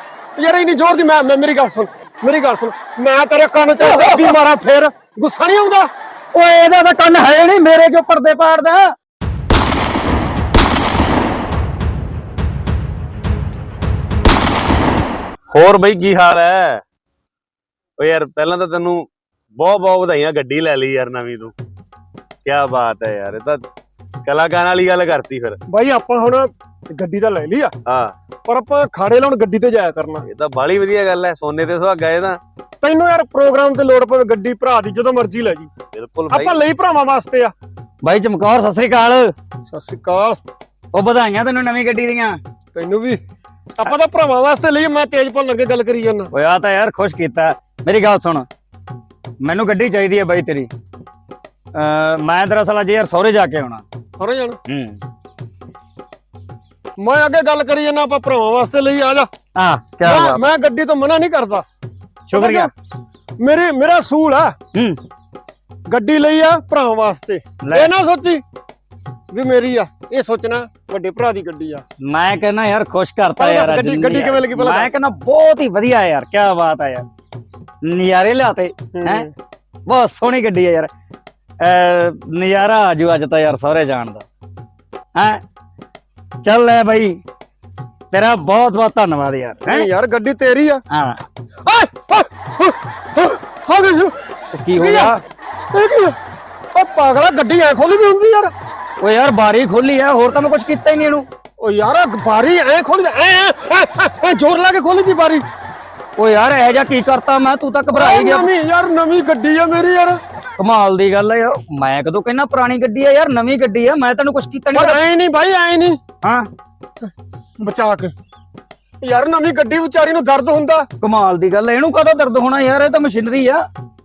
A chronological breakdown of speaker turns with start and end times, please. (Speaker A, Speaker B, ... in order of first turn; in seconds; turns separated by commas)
Speaker A: 0.4-5.9, Speaker B: 3.8-4.3, Speaker B: 6.3-8.9, Speaker C: 15.5-16.8, Speaker C: 18.0-21.5, Speaker C: 22.4-23.6, Speaker C: 24.2-25.6, Speaker A: 25.7-27.7, Speaker C: 27.9-28.1, Speaker A: 28.4-30.2, Speaker C: 30.2-32.4, Speaker A: 32.8-35.7, Speaker C: 35.9-36.6, Speaker A: 36.3-37.5, Speaker B: 38.0-39.3, Speaker A: 39.7-40.4, Speaker B: 40.9-42.4, Speaker A: 42.7-43.2, Speaker A: 43.8-46.3, Speaker B: 46.3-48.5, Speaker B: 49.4-50.7, Speaker B: 51.7-53.8, Speaker A: 54.2-54.6, Speaker B: 54.7-55.0, Speaker A: 57.0-59.3, Speaker B: 59.5-60.4, Speaker A: 60.0-61.6, Speaker B: 62.3-62.7, Speaker A: 62.3-62.7, Speaker A: 63.4-64.5, Speaker A: 65.9-68.4, Speaker B: 67.6-67.9, Speaker A: 69.3-71.8, Speaker B: 72.0-77.0, Speaker A: 73.4-74.9, Speaker B: 77.8-79.3, Speaker A: 79.0-79.3, Speaker B: 79.9-80.9, Speaker B: 81.6-84.2, Speaker B: 85.2-85.4, Speaker B: 86.4-87.2, Speaker B: 88.1-89.9, Speaker A: 89.7-90.8, Speaker B: 90.9-91.2, Speaker A: 91.6-94.1, Speaker B: 94.5-95.2, Speaker A: 94.7-95.1, Speaker A: 95.7-96.2, Speaker A: 96.7-98.5, Speaker B: 99.0-101.2, Speaker A: 101.6-105.4, Speaker B: 106.2-108.5, Speaker A: 107.9-110.2, Speaker B: 110.6-115.0, Speaker A: 114.7-116.0, Speaker B: 116.2-116.5, Speaker A: 117.6-118.1, Speaker A: 119.0-120.9, Speaker B: 121.0-123.6